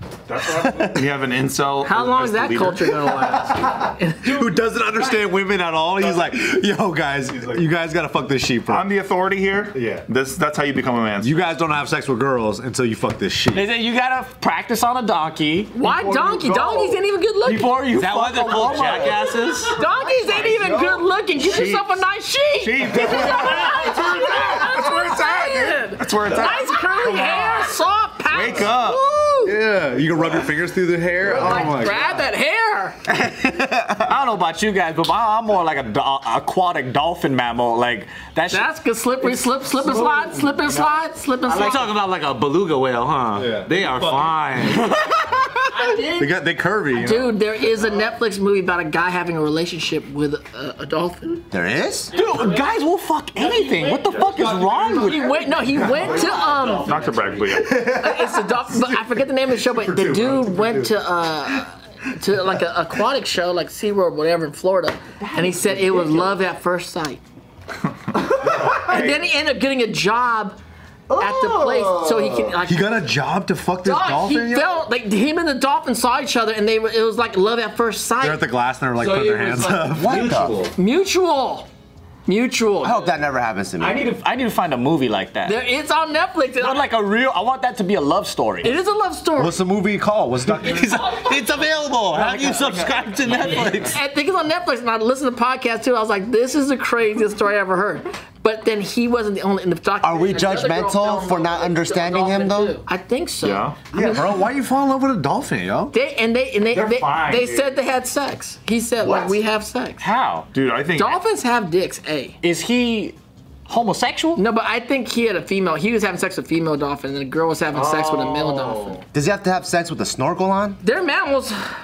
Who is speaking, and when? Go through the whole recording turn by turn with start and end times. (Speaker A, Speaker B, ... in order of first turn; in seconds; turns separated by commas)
Speaker A: 0.3-2.9, Speaker B: 1.8-4.5, Speaker C: 3.9-8.9, Speaker A: 7.2-7.7, Speaker A: 8.7-11.4, Speaker C: 9.7-10.1, Speaker C: 11.2-13.6, Speaker D: 13.5-15.8, Speaker B: 15.7-17.8, Speaker C: 15.8-16.9, Speaker D: 17.4-19.2, Speaker E: 17.9-19.8, Speaker B: 19.6-29.6, Speaker C: 19.8-21.0, Speaker A: 21.3-22.0, Speaker A: 22.6-27.8, Speaker C: 22.9-23.8, Speaker E: 28.3-28.8, Speaker A: 28.4-28.8, Speaker C: 29.4-32.1, Speaker B: 31.2-33.0, Speaker F: 33.1-34.1, Speaker D: 34.0-38.7, Speaker B: 38.5-41.9, Speaker C: 39.9-40.2, Speaker E: 41.5-45.4, Speaker C: 43.3-44.9, Speaker B: 45.7-46.3, Speaker C: 46.1-47.4, Speaker B: 46.9-51.4, Speaker F: 51.5-52.1, Speaker D: 52.1-55.3, Speaker B: 53.4-54.0, Speaker C: 54.1-58.2, Speaker B: 54.9-56.9, Speaker A: 56.8-57.7, Speaker B: 57.5-67.2, Speaker C: 59.9-60.9, Speaker B: 68.2-70.6, Speaker F: 71.1-72.4, Speaker B: 71.1-72.9, Speaker C: 72.7-74.8, Speaker B: 73.8-78.5, Speaker C: 78.2-80.5, Speaker E: 79.1-80.5, Speaker F: 79.8-80.6, Speaker B: 80.6-81.7, Speaker B: 82.2-83.0, Speaker F: 82.8-84.1, Speaker D: 83.8-85.6, Speaker B: 85.4-86.9, Speaker D: 86.6-88.7, Speaker B: 88.6-89.6, Speaker C: 89.4-91.1, Speaker E: 90.5-94.0, Speaker B: 90.8-91.4, Speaker A: 92.4-93.3, Speaker B: 93.6-104.3, Speaker F: 100.0-102.8, Speaker A: 103.4-103.9, Speaker C: 103.9-105.9, Speaker B: 105.9-110.1, Speaker D: 106.7-107.6, Speaker D: 110.0-110.5, Speaker A: 110.5-111.2, Speaker B: 110.9-112.4, Speaker D: 112.4-113.2, Speaker D: 113.7-114.4, Speaker B: 114.3-119.0, Speaker D: 118.0-118.9, Speaker F: 119.1-120.8, Speaker B: 120.8-121.5